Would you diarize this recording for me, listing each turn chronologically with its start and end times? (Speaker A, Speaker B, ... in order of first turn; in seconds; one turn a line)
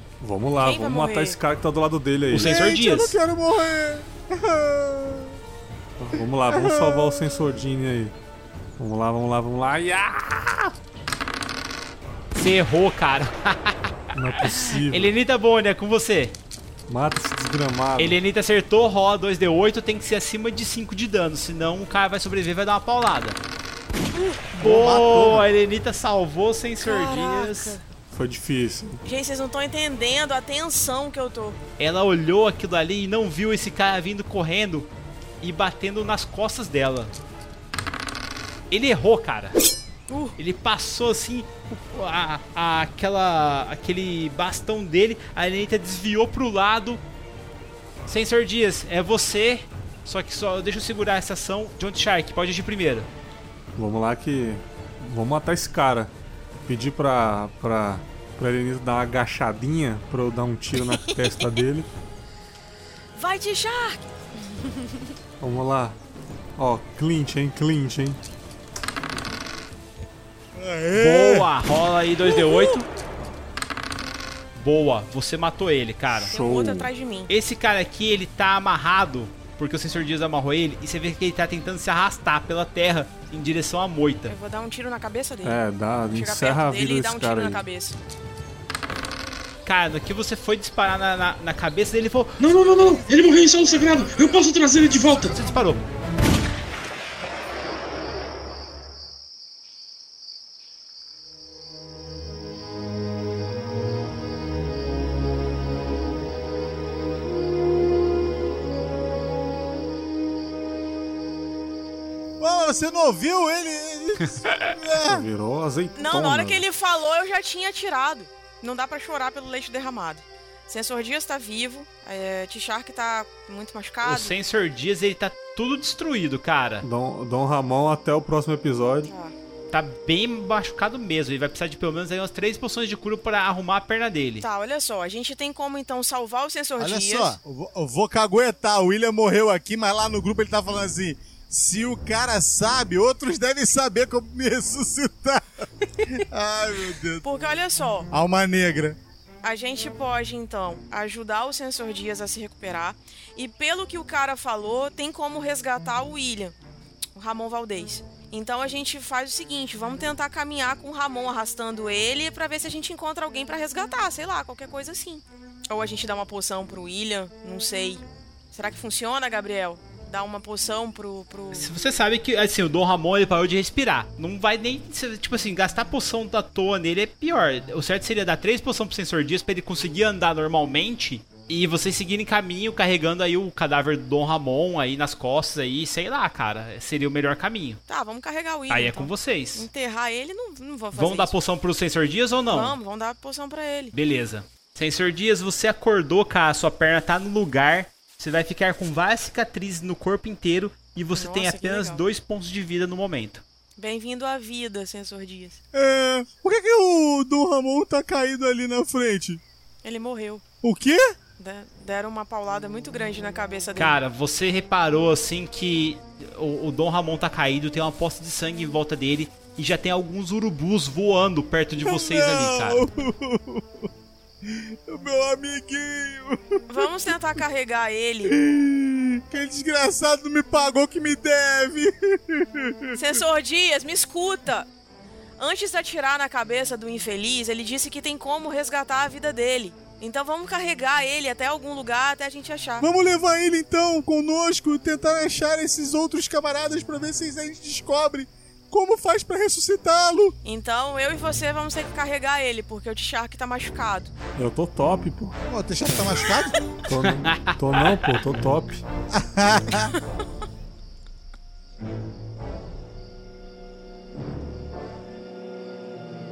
Speaker A: 0.2-2.7
Speaker B: 0.6-1.4
Speaker C: 2.3-3.2
Speaker D: 2.4-5.3
Speaker A: 6.0-8.1
Speaker D: 6.5-7.2
Speaker A: 8.8-10.7
Speaker C: 12.3-16.4
Speaker A: 14.1-15.1
Speaker A: 16.9-18.2
Speaker C: 18.0-23.4
Speaker B: 24.1-24.4
Speaker C: 24.5-27.8
Speaker A: 24.6-25.4
Speaker B: 26.8-27.8
Speaker A: 28.1-29.0
Speaker B: 29.0-31.6
Speaker C: 31.8-37.1
Speaker C: 38.7-39.6
Speaker B: 40.1-40.4
Speaker C: 40.4-47.0
Speaker C: 48.1-53.1
Speaker A: 53.8-56.1
Speaker A: 56.6-61.9
Speaker B: 60.9-61.2
Speaker B: 63.1-65.1
Speaker A: 65.4-66.0
Speaker A: 66.6-68.2
Speaker D: 70.5-71.5
Speaker C: 70.9-72.9
Speaker C: 74.5-76.3
Speaker A: 76.2-76.9
Speaker B: 76.3-77.3
Speaker C: 77.3-84.3
Speaker B: 84.3-88.0
Speaker A: 85.4-87.6
Speaker C: 89.6-92.4
Speaker E: 92.4-95.4
Speaker C: 95.3-95.8
Speaker D: 112.4-115.2
Speaker A: 115.1-116.7
Speaker B: 115.9-124.4
Speaker C: 124.0-126.8
Speaker A: 126.8-129.1
Speaker B: 129.1-129.3
Speaker C: 129.7-134.4
Speaker B: 134.4-137.4
Speaker D: 136.8-147.2
Speaker B: 147.2-148.1
Speaker D: 148.1-149.0
Speaker B: 149.4-156.5
Speaker B: 157.1-171.7
Speaker C: 171.5-187.8
Speaker B: 187.9-191.3
Speaker C: 188.7-189.7
Speaker C: 190.9-192.8
Speaker B: 192.5-193.9
Speaker C: 193.9-203.4
Speaker B: 201.1-202.0
Speaker B: 203.8-205.6
Speaker D: 205.7-209.4
Speaker B: 209.8-210.4
Speaker D: 210.6-211.2
Speaker B: 211.4-214.0
Speaker C: 213.8-222.8
Speaker D: 221.8-223.9
Speaker D: 224.4-226.6
Speaker B: 226.7-228.3
Speaker D: 228.3-233.1
Speaker B: 232.9-234.7
Speaker B: 235.4-242.9
Speaker D: 242.8-250.3
Speaker B: 250.4-254.1
Speaker A: 254.3-255.3
Speaker D: 255.5-256.6
Speaker A: 256.9-258.8
Speaker C: 257.0-258.1
Speaker D: 259.2-259.9